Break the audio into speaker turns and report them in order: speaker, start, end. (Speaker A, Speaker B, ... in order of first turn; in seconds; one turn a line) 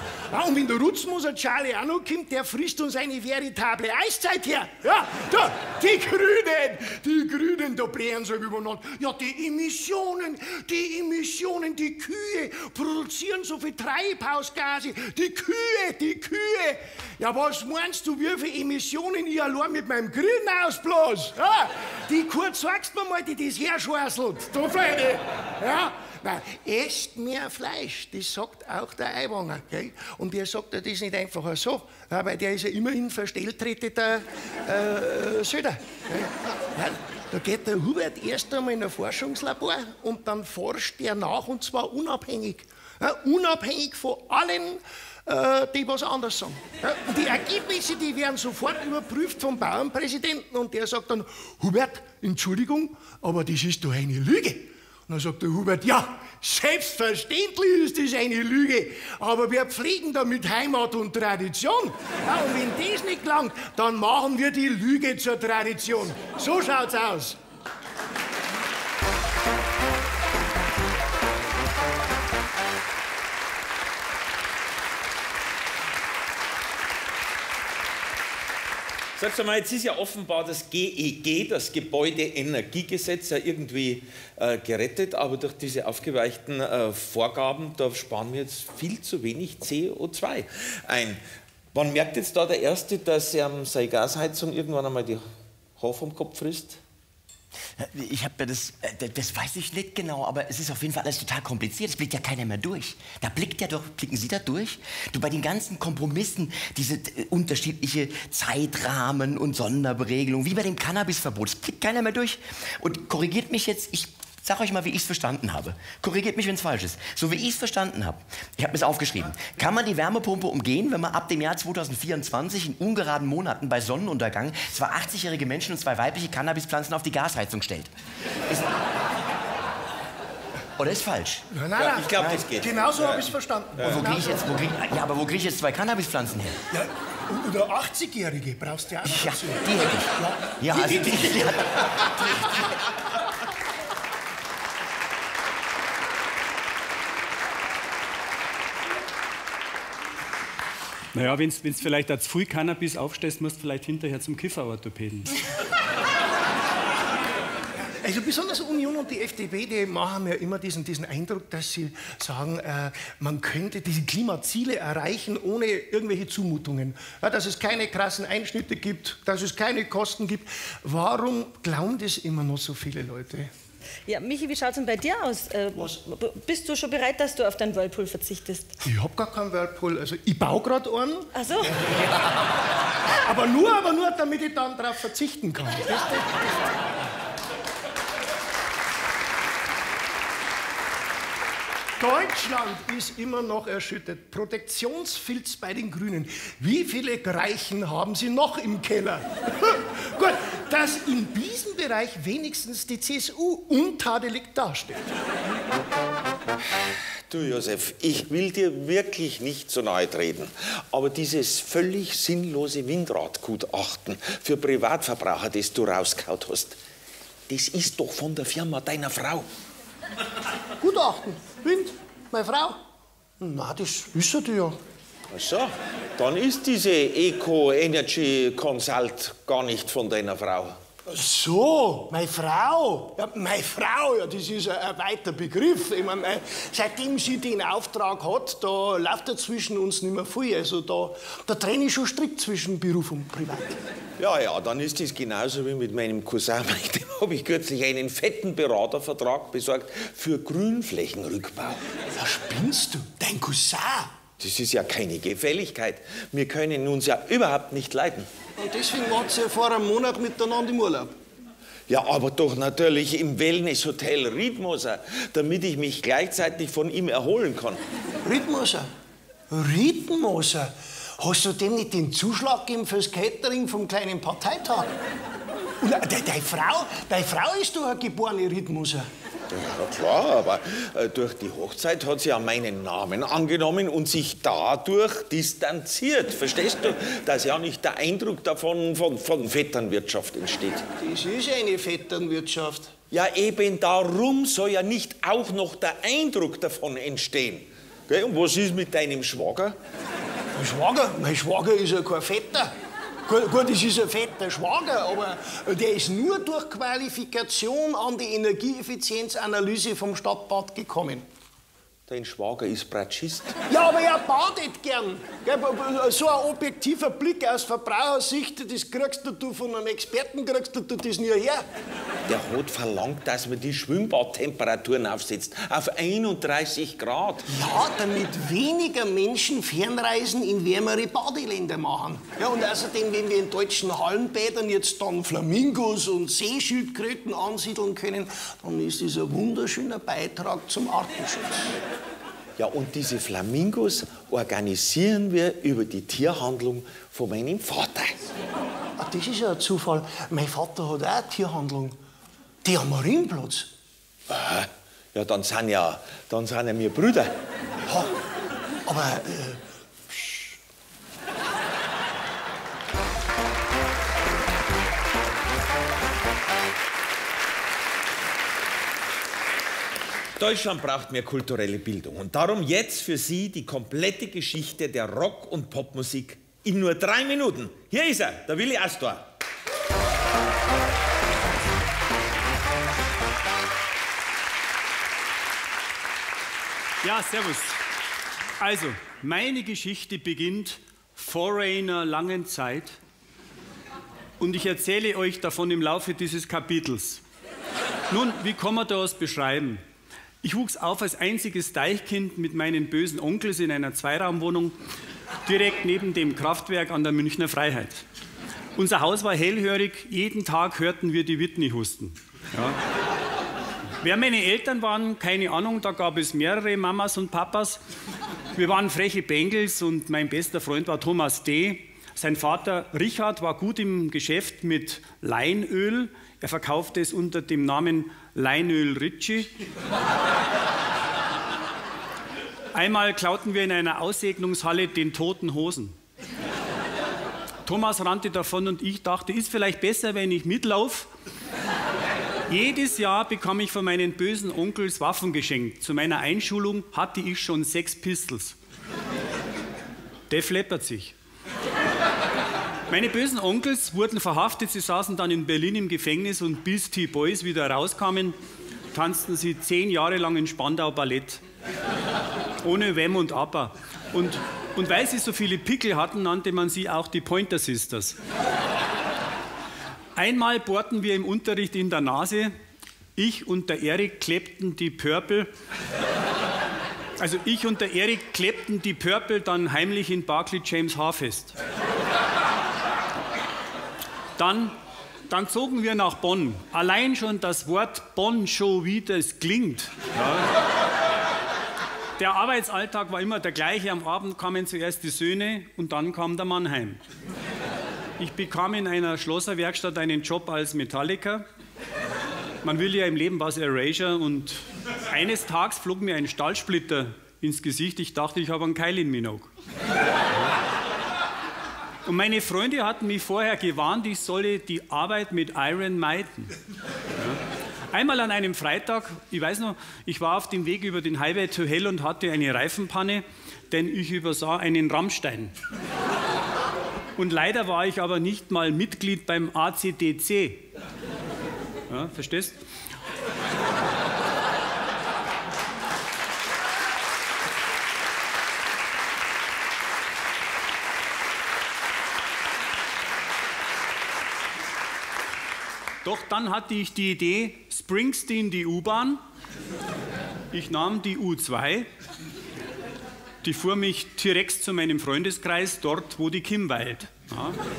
Speaker A: 0.3-67.4
Speaker B: 79.2-91.2
Speaker B: 91.7-95.2
Speaker B: 95.8-96.8
Speaker C: 97.8-127.9
Speaker C: 130.8-131.5
Speaker A: 131.5-134.4
Speaker B: 131.8-134.0
Speaker C: 132.2-132.5
Speaker C: 133.8-136.6
Speaker A: 136.7-142.4
Speaker C: 139.0-142.0
Speaker D: 151.1-155.3
Speaker A: 158.0-173.5
Speaker E: 174.1-178.8
Speaker A: 178.8-181.3
Speaker E: 181.3-181.7
Speaker A: 183.2-186.6
Speaker A: 192.0-205.0
Speaker B: 207.3-216.8
Speaker B: 217.5-219.5
Speaker A: 220.8-222.8
Speaker A: 223.4-224.8
Speaker B: 225.3-230.8
Speaker A: 231.1-243.8
Speaker B: 244.2-251.9
Speaker A: 252.1-254.1
Speaker B: 254.4-258.3
Speaker A: 258.6-261.1
Speaker B: 261.9-267.8
Speaker A: 268.2-268.9
Speaker A: 269.5-275.0
Speaker A: 275.8-279.1
Speaker B: 279.5-290.8
Speaker A: 291.0-292.9
Speaker B: 293.1-299.8
Speaker A: 300.6-302.7
Speaker A: 303.2-311.2
Speaker B: 312.1-313.6
Speaker A: 313.7-321.6
Speaker B: 322.3-327.5
Speaker A: 327.5-341.8
Speaker B: 342.6-348.2
Speaker A: 349.0-352.0
Speaker A: 352.6-353.7
Speaker B: 354.3-357.4
Speaker A: 357.9-358.1
Speaker A: 358.9-360.5
Speaker B: 370.4-379.2
Speaker D: 387.0-387.8
Speaker D: 388.6-392.9
Speaker D: 394.4-397.2
Speaker D: 398.1-399.8
Speaker D: 400.4-404.8
Speaker D: 405.4-408.1
Speaker D: 408.8-412.8
Speaker D: 414.0-417.8
Speaker D: 418.5-429.5
Speaker D: 432.7-435.9
Speaker D: 437.6-441.1
Speaker D: 442.5-448.5
Speaker D: 450.3-451.1
Speaker D: 452.9-458.4
Speaker D: 458.9-461.4
Speaker D: 462.6-468.2
Speaker D: 470.1-472.5
Speaker D: 473.1-475.5
Speaker D: 477.2-481.6
Speaker D: 484.4-484.8
Speaker D: 485.3-490.5
Speaker D: 492.2-497.0
Speaker D: 498.2-501.4
Speaker D: 502.6-509.5
Speaker D: 512.0-516.5
Speaker D: 517.1-525.5
Speaker D: 527.2-530.6
Speaker D: 531.9-532.6
Speaker D: 546.0-549.2
Speaker D: 550.5-551.9
Speaker D: 553.4-557.6